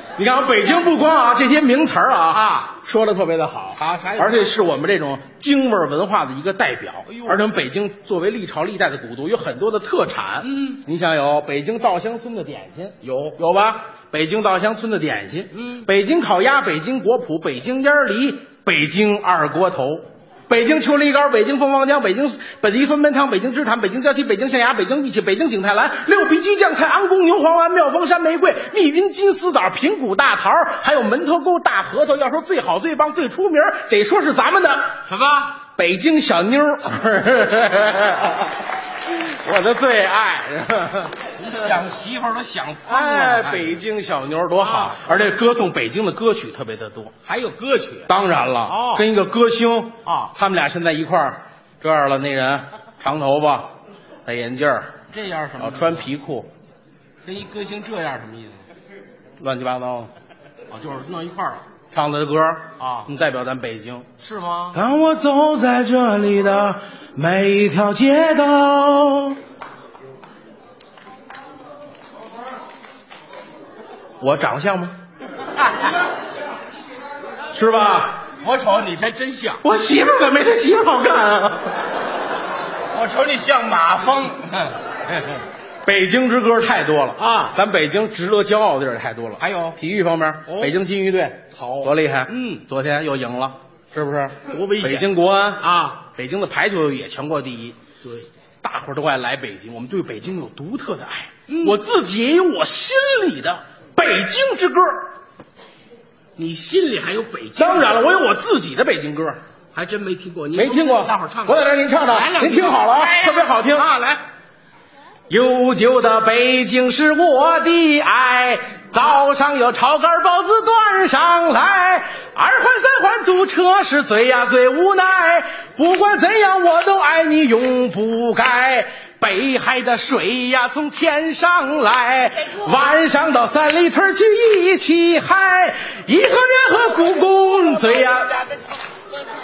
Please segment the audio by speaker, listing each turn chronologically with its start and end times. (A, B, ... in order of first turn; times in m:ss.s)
0:00.2-0:35.0 A
0:02.3-0:02.7 B
0:03.7-0:04.6 B
0:07.1-0:07.4 B
0:10.4-0:10.8 B
0:13.0-0:13.4 B
0:15.5-0:15.9 B
0:35.0-0:35.6 B
0:35.7-0:38.4 A
0:39.1-0:41.2 A
0:41.4-0:43.8 B
0:42.8-0:47.1 A
0:44.6-0:45.2 B
0:47.2-0:48.1 B
0:48.1-0:53.7 A
0:48.6-0:49.0 B
0:50.0-0:50.3 B
0:54.2-0:55.0 A
0:55.1-0:56.1 B
0:55.6-0:56.5 A
0:57.2-0:58.7 B
0:59.4-1:00.1 A
1:00.7-1:01.6 B
1:01.9-1:04.1 A
1:02.8-1:03.1 B
1:04.2-1:04.8 B
1:04.7-1:09.4 A
1:14.2-1:15.0 A
1:17.5-1:18.2 A
1:18.4-1:19.6 B
1:19.6-1:21.8 A
1:22.9-1:25.4 B
1:25.8-1:37.8 A
1:27.2-1:27.6 B
1:29.4-1:29.8 B
1:30.4-1:30.8 B
1:31.5-1:32.6 B
1:34.5-1:36.0 B
1:38.0-1:38.3 B
1:38.6-1:45.1 A
1:41.5-1:41.8 B
1:46.4-1:48.2 B
1:47.6-1:49.4 A
1:49.7-1:54.2 B
1:50.5-1:53.9 A
1:55.3-2:18.4 A
2:17.8-2:18.7 B